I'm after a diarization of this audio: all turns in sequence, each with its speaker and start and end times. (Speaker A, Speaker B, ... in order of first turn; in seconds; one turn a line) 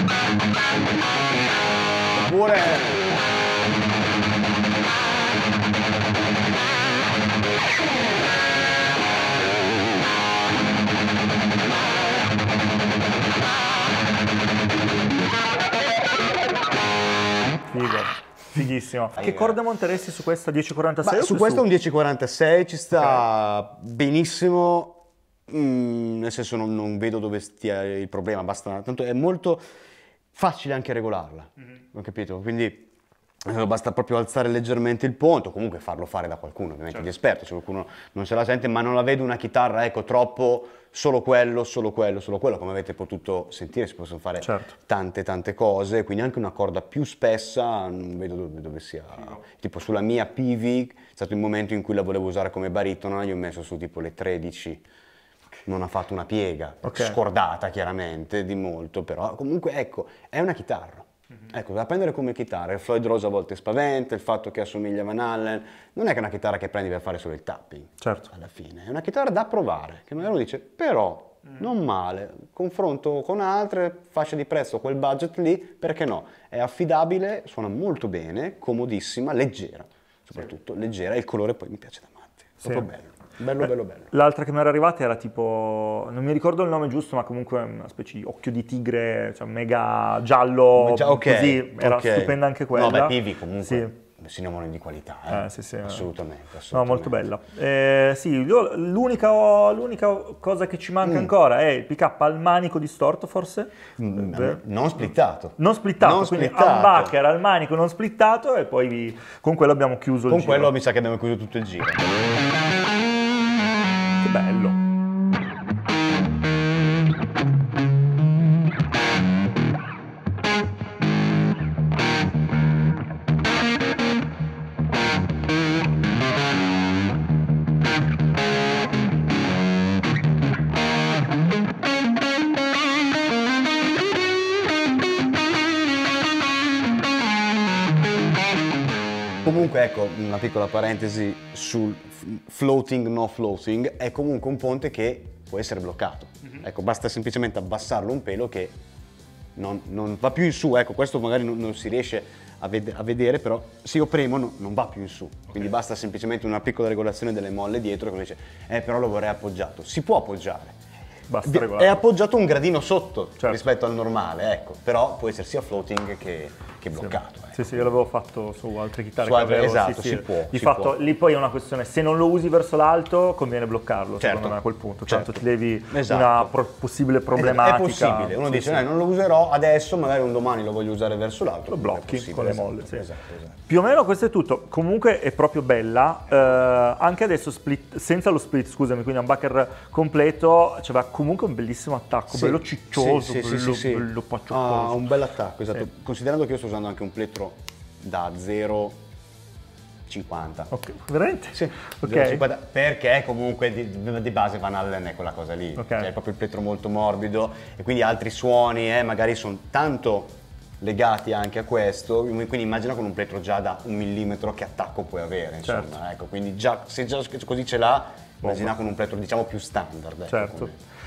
Speaker A: 2.2-3.1
Speaker B: 17.7-21.7
Speaker A: 19.2-19.6
Speaker A: 21.0-29.6
Speaker A: 30.3-32.9
Speaker A: 33.5-54.8
Speaker B: 44.4-44.7
Speaker A: 55.6-84.1
Speaker B: 56.8-57.2
Speaker B: 68.0-68.3
Speaker B: 83.6-93.9
Speaker A: 90.8-97.2
Speaker B: 95.3-96.1
Speaker B: 96.7-110.7
Speaker A: 101.0-101.3
Speaker A: 104.0-107.1
Speaker A: 110.3-112.0
Speaker B: 114.2-114.8
Speaker A: 139.4-148.8
Speaker A: 149.6-160.8
Speaker B: 161.3-162.0
Speaker A: 161.4-167.9
Speaker B: 167.0-178.9
Speaker A: 169.2-171.0
Speaker A: 174.2-176.5
Speaker A: 177.4-183.5
Speaker B: 181.7-183.1
Speaker B: 183.6-195.1
Speaker A: 192.3-199.0
Speaker A: 200.1-200.7
Speaker B: 200.7-202.4
Speaker A: 201.5-220.8
Speaker B: 205.8-206.1
Speaker B: 215.6-215.9
Speaker B: 218.4-218.7
Speaker B: 220.3-220.7